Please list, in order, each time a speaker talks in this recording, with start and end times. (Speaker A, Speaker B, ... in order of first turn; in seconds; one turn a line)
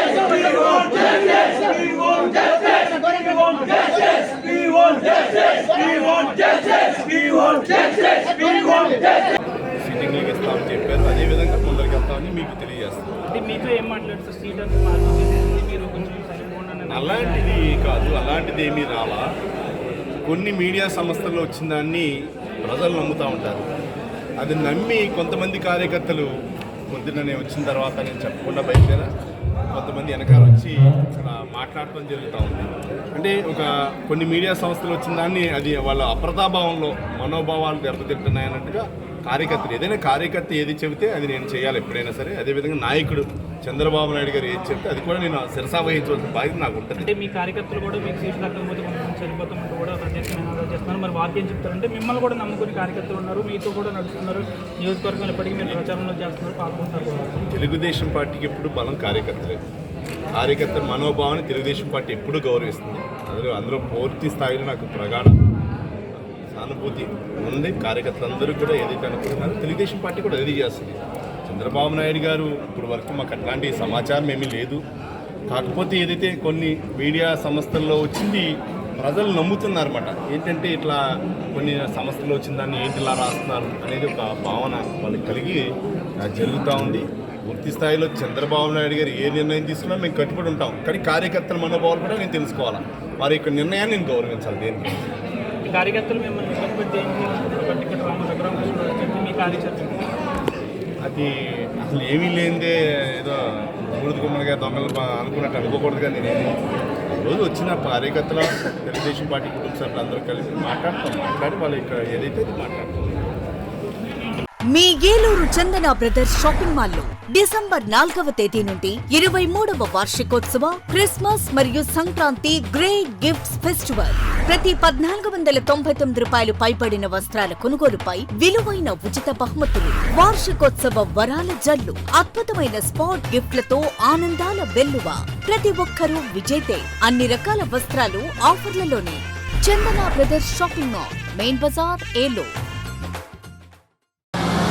Speaker A: 0.5-1.1
Speaker A: 3.0-3.7
Speaker A: 4.3-9.0
Speaker B: 9.8-13.1
Speaker A: 13.3-17.7
Speaker B: 16.9-19.3
Speaker B: 20.2-22.1
Speaker B: 22.6-23.6
Speaker B: 24.4-26.3
Speaker B: 26.9-29.1
Speaker B: 29.7-47.1
Speaker A: 47.0-57.4
Speaker B: 57.5-59.6
Speaker B: 60.4-65.4
Speaker B: 66.2-74.8
Speaker B: 75.5-81.0
Speaker B: 81.5-85.6
Speaker B: 86.2-95.0
Speaker A: 95.7-100.0
Speaker B: 101.0-106.6
Speaker B: 107.2-113.2
Speaker C: 114.7-142.5